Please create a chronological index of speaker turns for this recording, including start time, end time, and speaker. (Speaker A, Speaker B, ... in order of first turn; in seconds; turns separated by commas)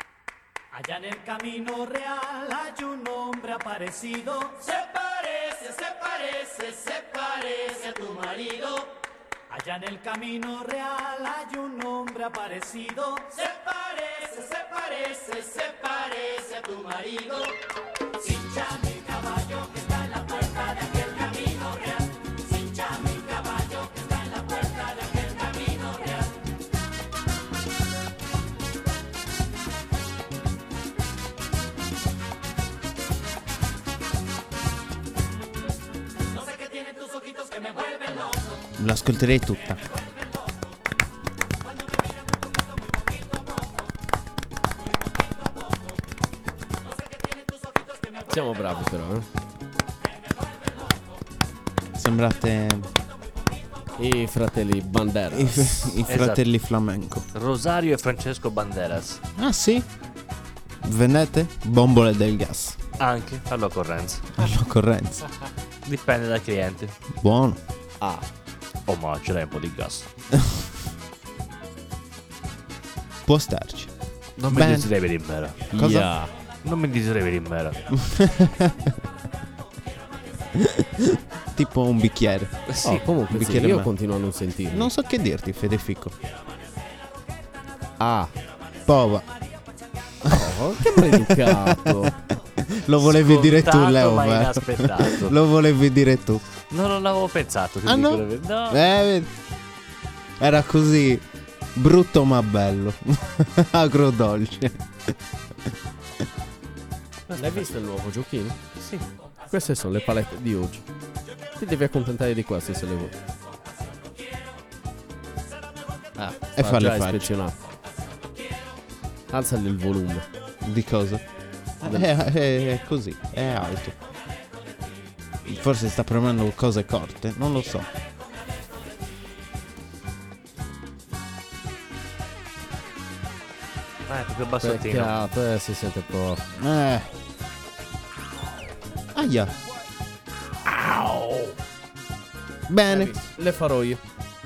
Speaker A: 0.7-8.9, Speaker A: 9.5-17.5, Speaker A: 18.2-26.3, Speaker A: 36.4-38.4, Speaker B: 38.8-39.8, Speaker C: 48.3-49.2, Speaker B: 52.0-52.9, Speaker C: 54.0-56.0, Speaker B: 55.3-57.2, Speaker D: 56.1-56.4, Speaker D: 57.3-59.2, Speaker B: 59.4-59.9, Speaker B: 60.8-62.8, Speaker D: 63.0-64.2, Speaker B: 64.4-65.2, Speaker D: 65.8-66.9, Speaker B: 67.1-67.6, Speaker C: 68.0-68.2, Speaker D: 68.9-70.1, Speaker B: 73.2-73.9, Speaker D: 74.4-75.6, Speaker B: 74.5-74.9, Speaker B: 75.7-76.1, Speaker C: 75.7-76.3, Speaker D: 76.6-77.8, Speaker B: 77.9-79.0, Speaker B: 80.5-82.6, Speaker D: 82.7-83.1, Speaker C: 82.8-84.9, Speaker B: 83.3-83.9, Speaker B: 84.7-86.1, Speaker C: 88.0-88.3, Speaker B: 88.8-89.2, Speaker B: 90.3-96.4, Speaker C: 90.3-92.1, Speaker D: 93.0-95.3, Speaker D: 96.7-98.8, Speaker B: 97.8-99.3, Speaker B: 100.4-101.2, Speaker B: 101.8-105.1, Speaker D: 107.3-107.7, Speaker C: 107.3-108.6, Speaker D: 108.8-109.0, Speaker C: 109.5-110.8, Speaker C: 111.6-113.2, Speaker B: 116.2-117.3, Speaker C: 116.6-117.6, Speaker C: 119.3-120.2, Speaker B: 120.6-121.2, Speaker B: 121.8-124.0, Speaker B: 125.4-127.9, Speaker D: 134.1-135.1, Speaker C: 134.6-136.4, Speaker B: 136.6-137.1, Speaker B: 139.1-139.5, Speaker C: 140.6-141.5, Speaker B: 142.7-143.2, Speaker C: 142.9-144.0